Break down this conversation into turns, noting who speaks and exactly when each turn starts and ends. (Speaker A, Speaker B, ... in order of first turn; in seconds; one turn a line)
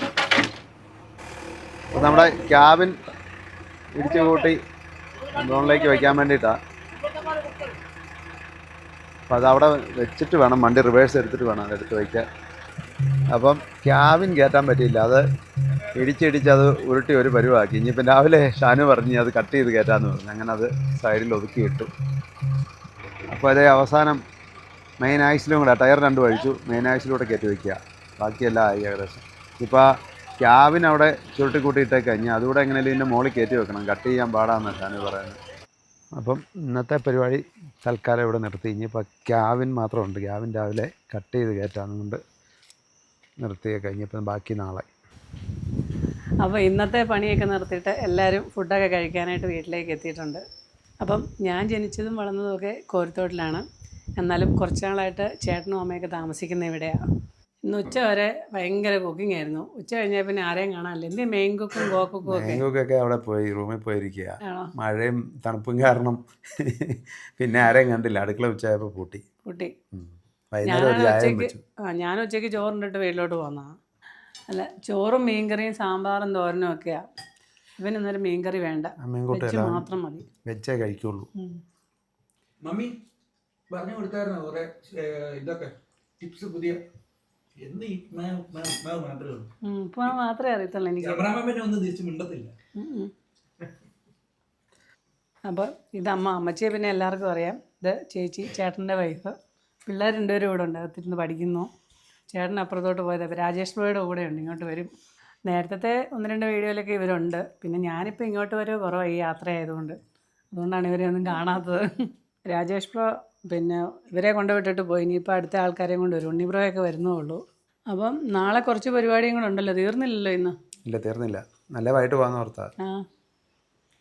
Speaker A: 1.9-3.0
Speaker A: 3.9-4.6
Speaker A: 5.3-6.6
Speaker A: 9.3-12.2
Speaker A: 13.3-15.2
Speaker A: 15.9-21.9
Speaker A: 23.3-24.2
Speaker A: 25.0-35.4
Speaker A: 36.1-42.2
Speaker A: 43.4-44.9
Speaker B: 46.4-50.4
Speaker B: 51.0-53.6
Speaker B: 54.2-57.0
Speaker B: 57.6-62.6
Speaker A: 62.2-69.2
Speaker B: 64.4-64.7
Speaker B: 69.4-69.7
Speaker A: 69.9-71.6
Speaker B: 70.6-73.8
Speaker B: 74.5-77.1
Speaker B: 77.8-80.2
Speaker A: 79.0-79.9
Speaker A: 80.4-81.3
Speaker C: 82.6-82.9
Speaker C: 83.7-86.8
Speaker C: 87.6-89.5
Speaker B: 89.6-91.2
Speaker C: 91.0-92.5
Speaker B: 92.8-93.1
Speaker B: 95.5-99.3
Speaker B: 99.9-101.7
Speaker B: 102.3-104.9
Speaker B: 105.5-110.0
Speaker B: 110.5-120.5
Speaker A: 120.9-122.7